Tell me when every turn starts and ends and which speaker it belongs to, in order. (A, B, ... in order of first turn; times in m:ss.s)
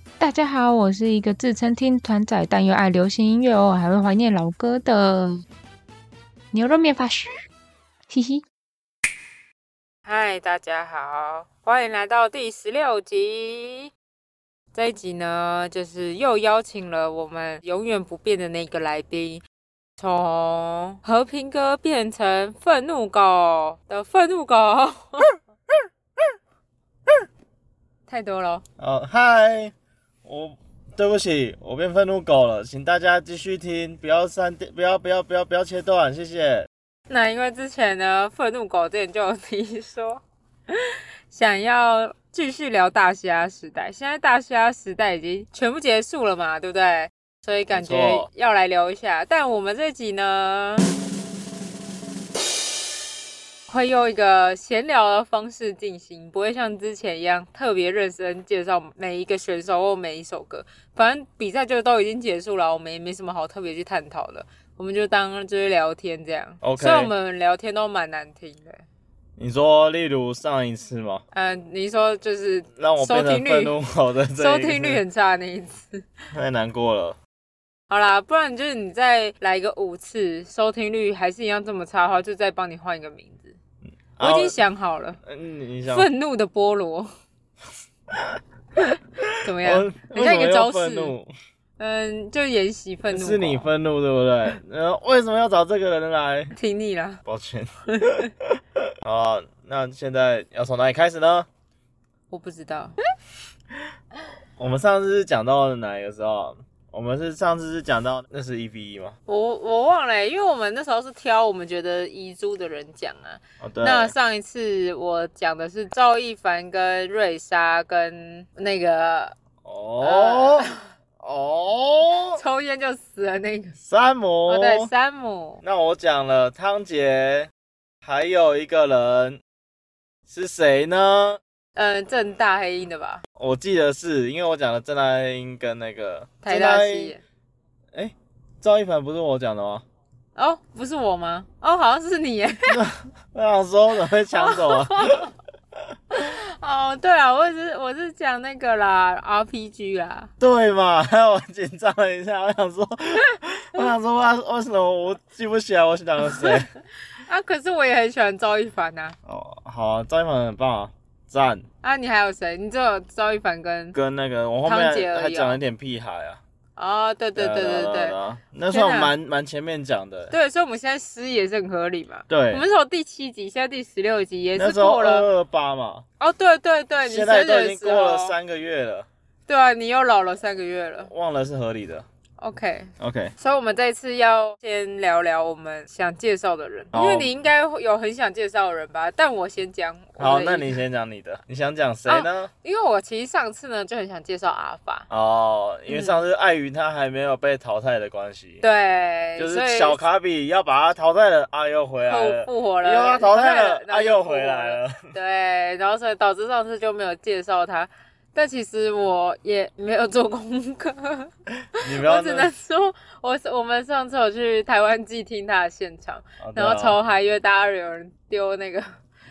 0:00.2-0:05.4 A
0:06.5-0:07.3 A
0:08.1-0:08.4 A
0:10.1-0:13.9 B
0:14.7-0:19.4 B
0:20.0-0:25.4 B
0:28.1-0:28.6 B
0:28.8-0:29.7 C
0:30.2-0:36.7 C
0:37.1-0:50.9 B
0:47.7-0:48.3 C
0:53.7-1:08.8 B
1:06.6-1:07.1 C
1:09.4-1:11.2 C
1:11.3-1:13.7 B
1:12.8-1:15.0 C
1:14.4-1:16.1 B
1:16.3-1:17.2 C
1:17.9-1:23.6 B
1:24.2-1:24.6 C
1:24.2-1:25.2 B
1:25.2-1:26.1 C
1:25.9-1:27.1 B
1:28.1-1:28.4 C
1:28.8-1:31.2 B
1:29.2-1:31.3 C
1:31.8-1:33.7 B
1:33.1-1:36.5 C
1:36.5-1:37.2 B
1:37.3-1:41.5 C
1:37.9-1:38.3 B
1:42.3-1:43.0 B
1:44.6-1:49.2 C
1:49.3-1:59.4 B
1:53.6-1:54.1 C
1:59.6-2:00.7 C
2:00.0-2:00.9 B
2:01.2-2:02.4 C
2:02.3-2:03.8 B
2:03.8-2:04.9 C
2:04.5-2:05.6 B
2:05.6-2:07.5 C
2:08.0-2:09.4 C
2:10.3-2:11.4 C
2:11.8-2:13.2 B
2:13.4-2:17.2 C
2:16.4-2:17.2 B
2:17.9-2:19.8 C
2:20.4-2:22.8 B
2:22.7-2:25.3 C
2:24.3-2:25.3 B
2:26.1-2:30.3 B
2:30.4-2:36.7 C
2:36.4-2:39.2 B
2:39.3-2:41.7 C
2:41.8-2:44.0 B
2:43.9-2:46.4 C
2:44.6-2:45.6 B
2:46.8-2:48.2 B
2:47.4-2:50.3 C
2:48.7-2:49.1 B
2:50.3-2:55.3 B
2:52.3-2:52.6 C
2:54.6-2:56.0 C
2:56.2-2:58.4 B
2:57.0-2:59.1 C
2:59.5-3:01.1 B
3:01.1-3:02.1 C
3:02.4-3:10.8 B
3:03.0-3:03.3 C
3:06.9-3:07.3 C
3:10.2-3:12.5 C
3:12.1-3:15.1 B
3:15.1-3:18.6 C
3:15.9-3:16.2 B
3:18.6-3:20.0 B
3:19.4-3:25.0 C
3:22.1-3:38.9 B
3:31.8-3:32.5 C
3:36.4-3:37.0 C